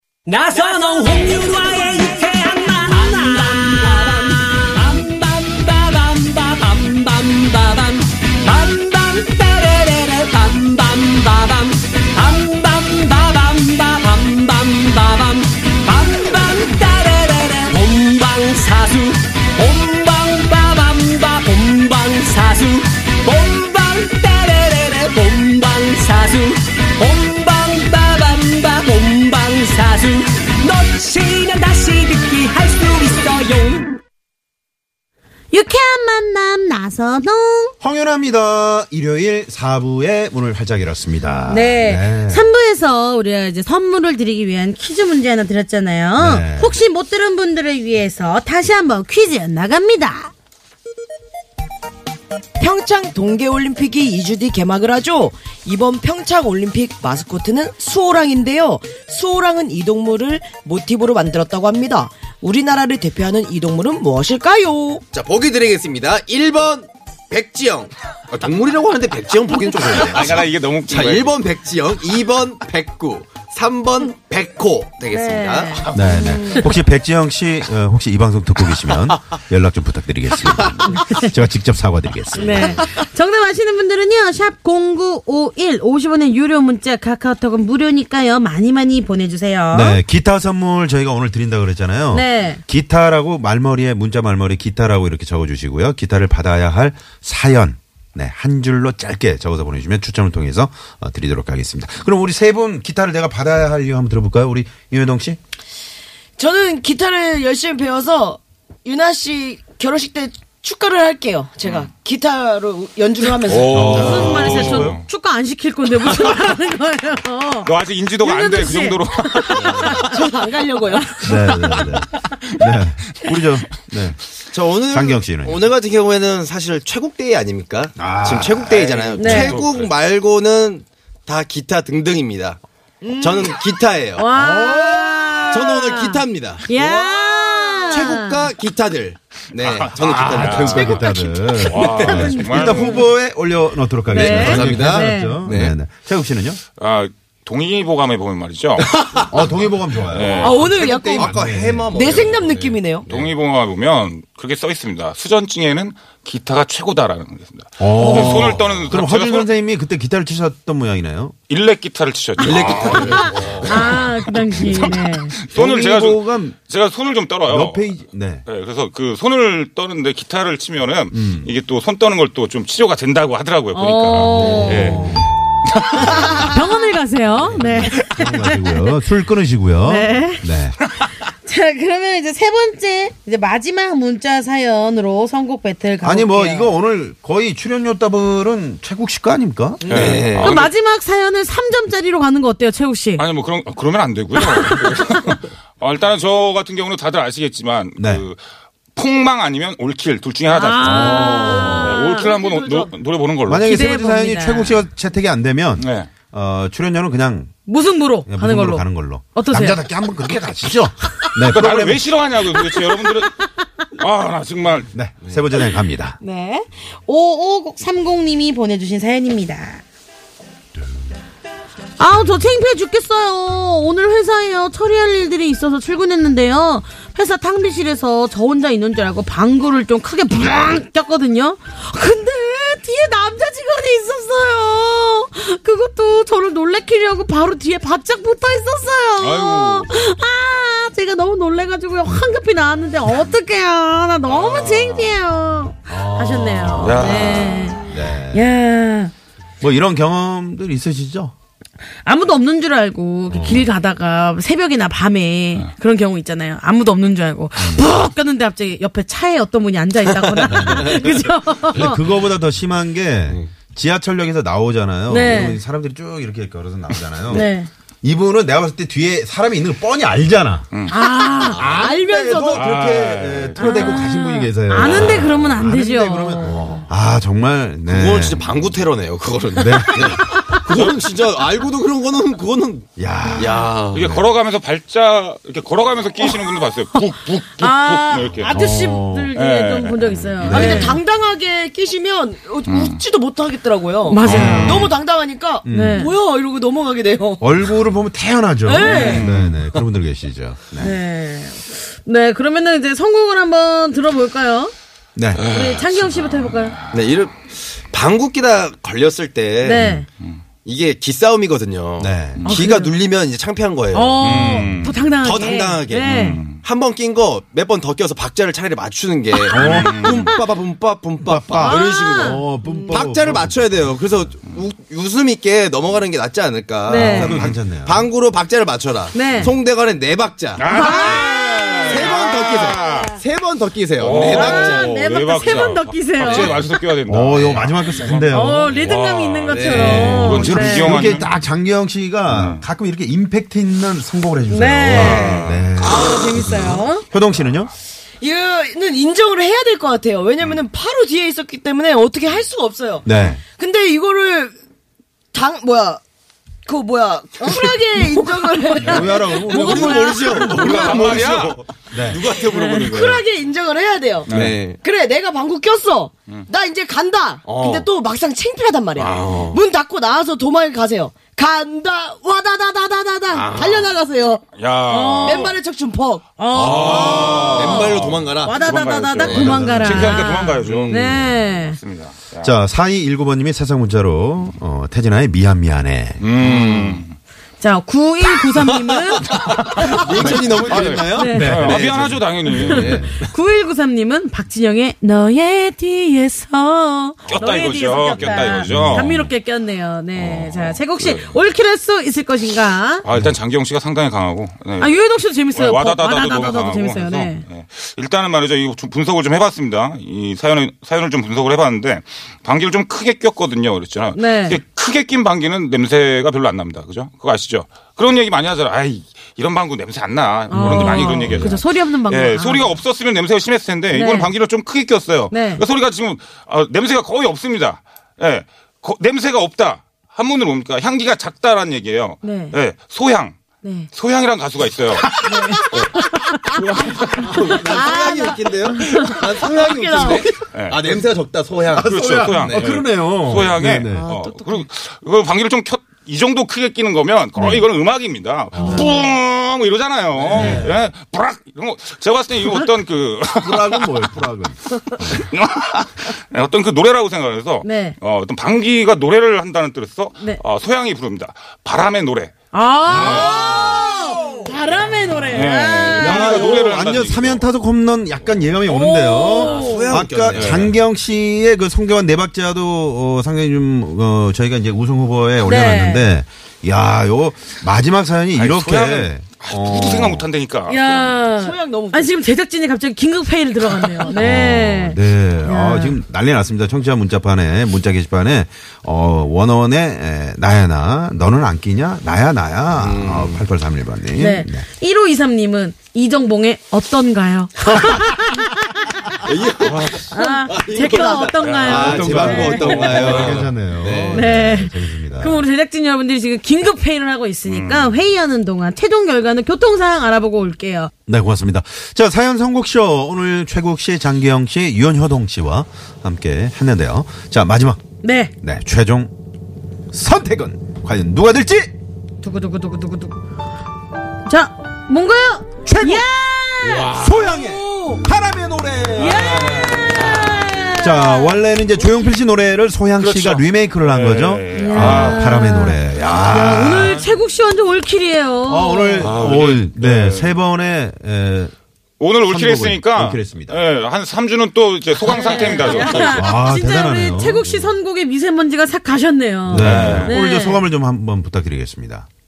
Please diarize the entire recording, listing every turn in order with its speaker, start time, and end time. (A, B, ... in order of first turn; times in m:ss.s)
0:00.3-0:34.0 A
0:35.5-0:37.8 B
0:37.8-0:42.5 C
0:41.5-0:50.3 B
0:46.2-0:46.8 C
0:52.6-1:05.0 D
1:05.1-1:15.9 E
1:09.8-1:11.4 F
1:15.1-1:15.9 B
1:15.9-1:22.8 C
1:16.0-1:16.7 D
1:21.0-1:21.2 B
1:22.4-1:30.0 B
1:29.7-1:45.4 C
1:32.1-1:32.6 B
1:46.4-1:54.0 D
1:51.6-1:51.9 F
1:53.4-1:55.0 F
1:53.7-1:55.0 C
1:53.8-2:00.2 B
1:57.6-2:00.0 F
1:59.5-2:00.0 E
2:00.0-2:01.2 D
2:01.0-2:01.8 B
2:01.2-2:04.2 C
2:04.5-2:12.6 E
2:04.9-2:05.7 C
2:08.0-2:09.0 C
2:08.9-2:09.9 F
2:09.2-2:09.6 B
2:13.0-2:13.6 D
2:13.2-2:14.4 E
2:14.2-2:18.4 B
2:14.9-2:21.0 E
2:19.6-2:21.1 F
2:20.0-2:26.6 C
2:20.7-2:21.6 D
2:21.7-2:23.0 F
2:21.8-2:23.1 B
2:24.1-2:25.4 B
2:24.2-2:25.8 E
2:26.8-2:29.5 F
2:29.0-2:29.5 E
2:29.3-2:32.2 C
2:30.1-2:30.9 F
2:30.3-2:31.4 D
2:31.1-2:32.7 E
2:31.9-2:33.1 D
2:32.3-2:39.5 F
2:37.8-2:41.4 C
2:38.1-2:38.5 B
2:41.5-2:47.9 F
2:42.4-2:44.0 E
2:42.6-2:45.4 B
2:45.5-2:46.6 C
2:47.5-2:48.4 C
2:48.4-2:55.2 F
2:51.1-2:51.5 C
2:53.7-2:55.2 B
2:54.2-2:56.6 C
2:55.8-2:56.1 F
2:56.0-2:58.9 B
2:57.4-3:00.8 C
2:59.8-3:00.5 B
3:01.4-3:06.7 B
3:06.0-3:10.2 C
3:09.8-3:10.1 D
3:09.9-3:10.7 F
3:09.9-3:10.6 E
3:10.3-3:13.2 B
3:13.2-3:18.4 F
3:18.0-3:18.2 C
3:19.0-3:23.8 F
3:20.5-3:22.3 B
3:20.8-3:21.6 C
3:21.3-3:22.9 D
3:23.5-3:27.5 C
3:23.7-3:24.8 B
3:25.8-3:26.1 F
3:27.7-3:29.8 B
3:28.3-3:32.2 C
3:31.4-3:33.4 F
3:34.0-3:34.9 F
3:34.9-3:36.2 C
3:36.2-3:39.8 B
3:42.0-4:09.1 B
3:59.2-3:59.9 F
4:04.3-4:05.2 F
4:05.9-4:08.5 C
4:06.8-4:07.7 F
4:09.6-4:11.3 C
4:12.0-4:22.0 B
4:13.3-4:13.7 C
4:17.6-4:17.9 C
4:20.5-4:27.5 C
4:25.1-4:25.6 B
4:27.3-4:27.7 B
4:28.0-4:30.7 C
4:30.9-4:31.7 B
4:31.2-4:32.6 D
4:31.5-4:38.7 C
4:32.5-4:34.0 F
4:33.6-4:36.8 B
4:34.9-4:35.3 E
4:37.9-4:44.0 E
4:39.6-4:40.4 C
4:40.7-4:41.0 F
4:43.0-4:44.3 C
4:43.9-4:48.6 F
4:47.6-4:51.0 B
4:48.4-4:49.3 C
4:49.3-4:50.7 F
4:50.4-4:51.0 C
4:50.5-4:57.5 D
4:52.6-4:53.0 F
4:54.0-4:54.8 B
4:54.2-4:54.9 F
4:54.2-4:54.9 C
4:55.6-4:56.1 C
4:55.7-4:56.1 B
4:57.4-5:01.0 C
4:58.7-4:59.3 D
4:58.8-4:59.7 F
4:58.8-4:59.3 B
5:00.8-5:04.7 B
5:05.2-5:05.4 C
5:05.3-5:07.0 F
5:05.4-5:06.8 B
5:06.9-5:09.9 E
5:09.6-5:10.1 B
5:10.6-5:14.4 E
5:12.0-5:12.5 C
5:12.5-5:12.9 B
5:13.9-5:16.4 B
5:14.2-5:15.1 F
5:15.2-5:34.9 E
5:16.0-5:16.6 F
5:19.5-5:20.1 C
5:19.6-5:20.2 F
5:19.9-5:20.4 B
5:21.2-5:24.3 C
5:21.6-5:22.4 B
5:26.9-5:27.4 B
5:26.9-5:28.1 C
5:29.1-5:29.6 B
5:30.6-5:33.2 F
5:30.7-5:32.2 B
5:32.8-5:33.1 B
5:34.0-5:41.3 F
5:34.1-5:36.6 B
5:36.3-5:38.8 C
5:38.3-5:41.2 B
5:39.5-5:40.4 E
5:39.8-5:47.7 C
5:42.3-5:42.7 F
5:44.5-5:47.0 B
5:44.9-5:45.7 F
5:48.2-5:54.5 D
5:53.0-5:53.4 C
5:55.3-5:56.0 D
5:56.7-6:01.1 D
5:58.8-6:00.9 B
5:58.8-6:00.6 C
5:59.5-6:01.8 E
6:00.4-6:03.2 F
6:01.9-6:02.2 C
6:02.1-6:14.4 D
6:02.6-6:03.2 E
6:04.3-6:04.6 F
6:04.3-6:04.8 E
6:07.4-6:07.9 E
6:09.0-6:09.6 E
6:13.3-6:13.9 E
6:14.6-6:15.5 F
6:14.9-6:15.5 B
6:15.2-6:16.4 D
6:16.4-6:21.8 B
6:16.5-6:18.6 E
6:16.5-6:22.6 F
6:19.2-6:20.2 C
6:19.2-6:19.6 E
6:20.6-6:21.2 E
6:22.4-6:26.5 C
6:26.2-6:27.2 F
6:26.4-6:27.0 E
6:27.6-6:30.4 B
6:28.7-6:33.3 E
6:29.8-6:33.2 C
6:30.3-6:33.0 F
6:31.1-6:31.8 B
6:32.6-6:43.1 B
6:37.2-6:39.3 F
6:38.2-6:39.3 C
6:40.2-6:41.4 F
6:43.0-7:13.4 F
6:44.8-6:47.4 B
6:54.1-6:54.6 B
7:00.5-7:02.8 B
7:00.5-7:01.6 C
7:03.9-7:04.3 B
7:05.3-7:05.6 B
7:12.2-7:12.6 B
7:13.6-7:13.9 B
7:13.9-7:15.2 F
7:15.2-7:16.6 B
7:16.6-7:17.2 F
7:17.0-7:22.7 E
7:17.5-7:19.2 B
7:17.7-7:18.4 D
7:18.9-7:20.3 D
7:20.5-7:20.9 F
7:21.7-7:24.1 C
7:21.8-7:33.9 F
7:23.9-7:24.6 B
7:28.5-7:28.9 C
7:30.2-7:30.9 C
7:30.3-7:30.7 B
7:33.4-7:35.3 C
7:34.8-7:42.4 F
7:37.6-7:38.0 B
7:42.5-7:46.7 B
7:42.9-7:43.4 F
7:42.9-7:43.6 C
7:43.4-7:43.8 E
7:45.3-7:47.5 F
7:45.9-8:00.3 C
7:48.7-7:49.9 B
7:49.3-7:50.7 E
7:50.3-7:50.7 F
7:55.4-7:56.1 B
7:58.4-8:01.1 F
8:00.7-8:06.0 B
8:01.2-8:02.1 D
8:04.2-8:14.7 C
8:12.8-8:13.5 E
8:14.2-8:19.2 B
8:19.2-8:24.2 E
8:19.6-8:20.1 F
8:20.1-8:23.1 B
8:21.4-8:23.5 F
8:21.6-8:25.4 C
8:24.1-8:30.9 B
8:27.4-8:28.0 F
8:31.1-8:37.8 C
8:38.0-8:38.3 B
8:38.4-8:39.1 C
8:39.9-8:41.7 C
8:42.2-8:43.2 B
8:44.3-8:46.9 B
8:45.7-8:46.1 C
8:46.6-8:47.5 F
8:46.9-8:50.1 C
8:49.0-8:51.4 B
8:49.1-8:50.6 F
8:50.8-8:57.0 C
8:53.0-8:55.4 F
8:54.5-8:59.2 B
8:56.8-8:57.1 F
8:58.5-9:01.5 C
8:59.0-9:00.4 F
9:02.0-9:06.3 F
9:02.3-9:03.6 C
9:05.1-9:10.6 B
9:05.9-9:07.5 C
9:07.4-9:07.7 F
9:09.5-9:12.1 C
9:09.5-9:10.2 F